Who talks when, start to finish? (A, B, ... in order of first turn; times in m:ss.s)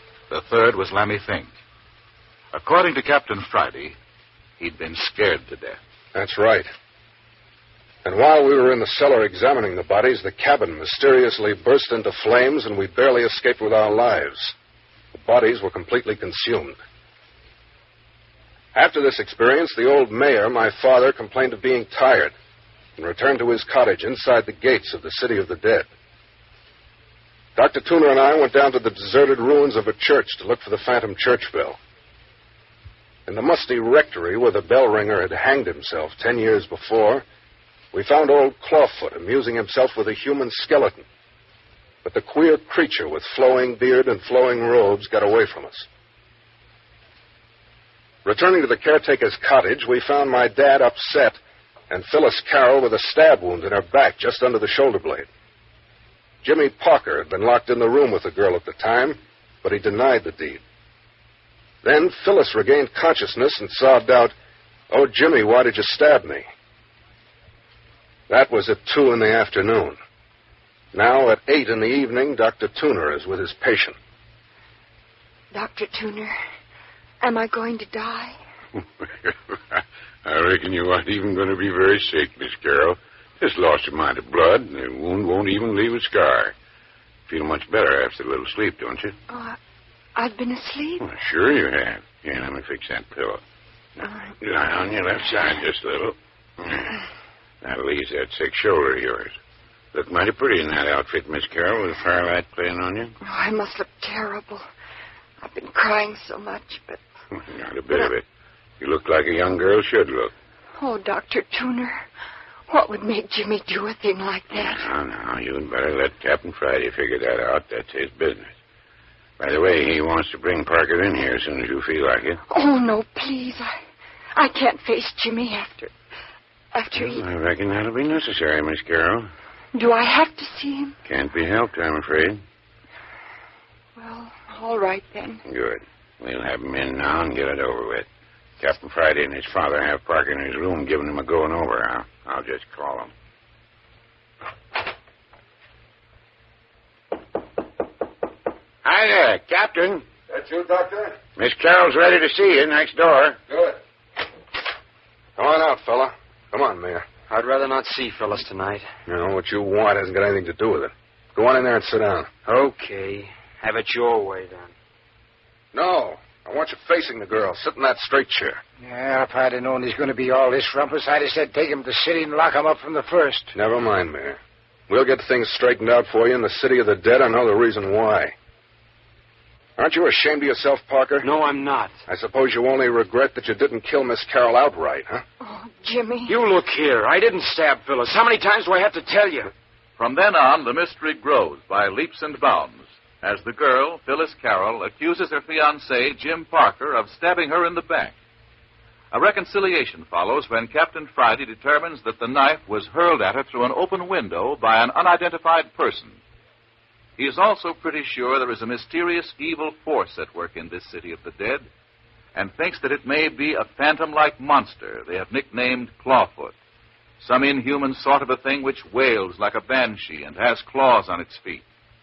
0:00.3-0:01.5 A
0:02.5-0:04.0 A
0:04.6-0:05.8 A
0:06.1-0:06.7 B
0:08.0-0:14.5 B
0:15.1-0:16.8 B
0:18.7-0:22.4 B
0:23.0-0:25.9 B
0:27.6-0:31.8 B
0:33.3-0:37.2 B
0:37.9-0:41.1 B
0:42.0-0:45.9 B
0:48.2-0:51.4 B
0:51.9-0:55.3 B
0:56.4-1:00.6 B
1:01.8-1:04.4 B
1:04.9-1:06.5 B
1:08.3-1:10.0 B
1:10.9-1:14.0 B
1:15.5-1:16.4 C
1:17.2-1:18.4 C
1:19.2-1:26.5 D
1:27.3-1:29.2 D
1:29.3-1:29.6 C
1:30.2-1:31.0 C
1:31.0-1:33.4 D
1:34.0-1:37.0 D
1:37.6-1:39.4 D
1:39.9-1:43.2 D
1:43.2-1:44.6 C
1:45.4-1:47.0 C
1:47.4-1:48.2 D
1:48.8-1:50.3 D
1:50.8-1:52.0 C
1:52.7-1:54.9 C
1:54.5-1:58.5 D
1:59.4-2:02.4 D
2:02.5-2:03.7 C
2:04.4-2:05.9 C
2:06.7-2:07.2 C
2:07.0-2:09.3 D
2:09.7-2:11.0 C
2:11.1-2:12.4 D
2:14.0-2:15.4 C
2:15.5-2:18.1 D
2:18.6-2:23.1 D
2:28.8-2:30.0 D
2:30.3-2:31.2 B
2:31.4-2:33.4 D
2:33.5-2:33.8 B
2:35.4-2:37.1 B
2:37.3-2:38.9 E
2:39.1-2:42.3 B
2:42.4-2:44.7 E
2:45.7-2:48.6 B
2:48.8-2:53.5 F
2:53.5-2:58.3 B
2:59.8-3:01.3 B
3:01.2-3:02.0 E
3:02.1-3:05.2 B
3:05.4-3:06.3 C
3:06.3-3:09.5 E
3:10.0-3:18.1 A
3:19.1-3:26.2 A
3:27.2-3:31.7 A
3:32.3-3:36.5 A
3:37.2-3:41.6 A